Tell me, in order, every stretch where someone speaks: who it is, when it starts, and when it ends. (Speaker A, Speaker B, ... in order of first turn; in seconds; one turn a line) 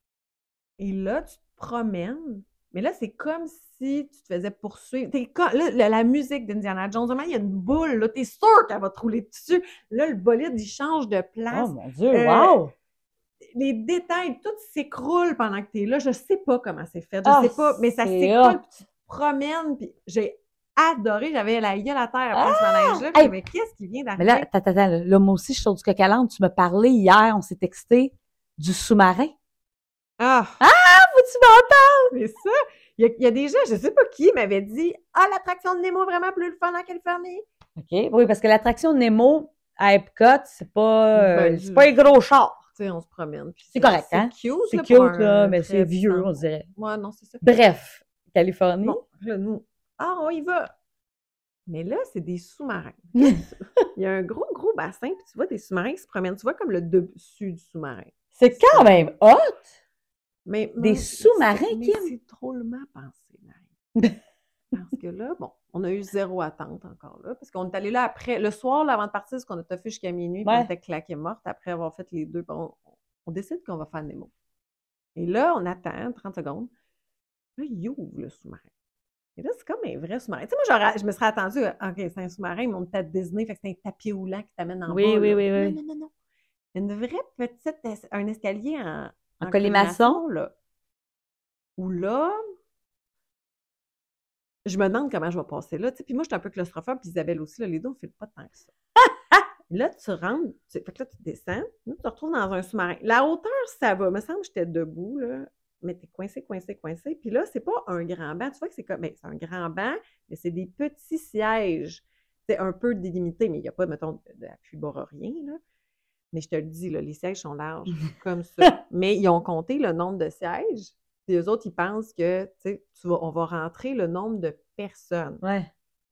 Speaker A: 0.8-12.6
Speaker B: 11.5-12.7
Speaker A: 13.5-24.5
Speaker B: 17.2-18.7
Speaker B: 22.3-23.3
Speaker B: 24.2-29.3
Speaker A: 30.2-30.6
Speaker B: 30.6-32.1
Speaker A: 32.1-37.4
Speaker B: 37.8-42.6
Speaker A: 41.1-42.2
Speaker A: 42.8-47.5
Speaker B: 43.7-46.7
Speaker B: 47.4-49.0
Speaker A: 48.8-50.7
Speaker A: 51.7-58.9
Speaker B: 58.4-59.7
Speaker A: 60.5-63.7
Speaker B: 60.8-62.1
Speaker A: 64.7-74.3
Speaker B: 70.5-70.7
Speaker A: 75.2-76.7
Speaker A: 77.6-78.7
Speaker A: 79.4-86.1
Speaker B: 84.9-85.8
Speaker A: 86.8-90.5
Speaker B: 89.4-90.2
Speaker A: 91.8-92.4
Speaker A: 94.7-98.7
Speaker B: 99.1-99.4
Speaker A: 99.7-115.6
Speaker A: 116.3-125.4
Speaker B: 125.4-125.7